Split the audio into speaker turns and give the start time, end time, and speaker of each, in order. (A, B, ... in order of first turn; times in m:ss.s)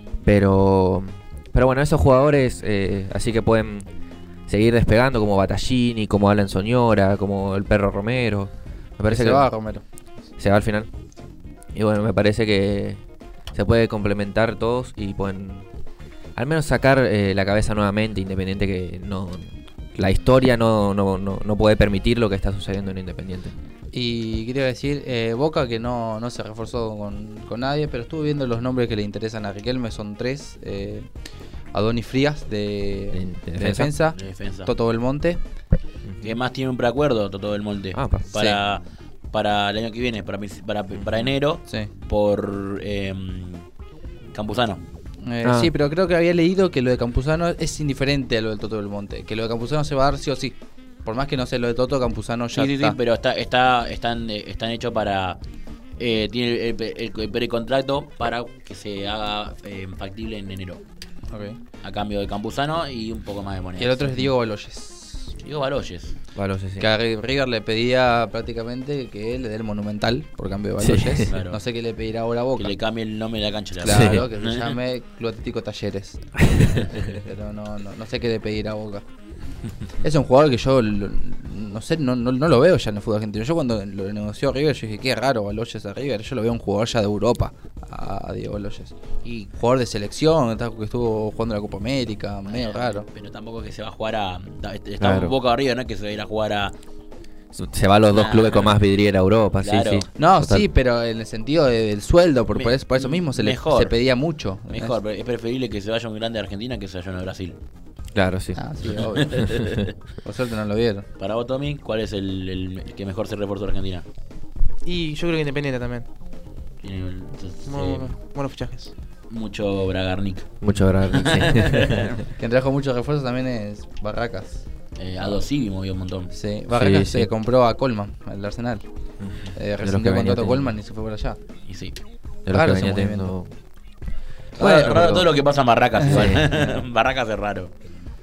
0:00.2-0:03.9 A
0:04.5-0:09.5 A
0:09.1-0:09.8 B
0:10.4-0:10.9 A
0:11.7-0:13.0 A
0:13.5-0:15.7 A
0:16.4-0:23.5 A
0:23.9-0:31.1 B
0:31.7-0:35.4 B
0:33.1-0:33.9 A
0:34.2-0:34.7 C
0:36.1-0:36.3 A
0:36.2-0:43.6 C
0:37.9-0:38.3 A
0:38.3-0:38.6 B
0:44.3-0:44.8 C
0:45.2-0:53.0 B
0:45.4-0:45.7 A
0:52.5-0:55.4 C
0:56.0-1:00.8 C
1:01.3-1:01.6 B
1:01.8-1:04.2 C
1:03.8-1:05.3 B
1:05.4-1:06.2 C
1:06.4-1:06.9 A
1:06.8-1:12.7 B
1:10.8-1:11.3 A
1:11.3-1:11.6 C
1:12.6-1:14.7 C
1:13.8-1:19.0 B
1:13.8-1:14.2 A
1:20.0-1:28.9 B
1:29.2-1:29.5 C
1:29.5-1:33.1 B
1:32.5-1:36.7 C
1:35.0-1:35.4 A
1:37.5-1:40.7 A
1:38.1-1:38.8 C
1:39.6-1:40.1 C
1:40.2-1:45.0 B
1:42.5-1:44.0 C
1:44.7-1:47.6 C
1:48.1-1:48.6 A
1:48.6-1:49.6 B
1:49.0-1:49.9 C
1:49.4-1:49.8 A
1:50.2-1:51.1 B
1:51.2-1:54.0 C
1:54.8-1:56.1 D
1:56.8-1:58.1 C
1:57.7-1:58.9 D
1:59.3-2:02.2 C
2:00.6-2:02.2 A
2:02.3-2:04.6 B
2:05.0-2:06.3 C
2:06.3-2:08.8 B
2:06.7-2:07.3 A
2:09.2-2:10.7 A
2:09.5-2:11.4 B
2:11.7-2:12.0 C
2:12.4-2:13.5 A
2:12.5-2:13.3 B
2:14.6-2:17.7 C
2:14.6-2:15.3 A
2:14.6-2:15.1 B
2:16.0-2:16.4 B
2:16.1-2:16.6 A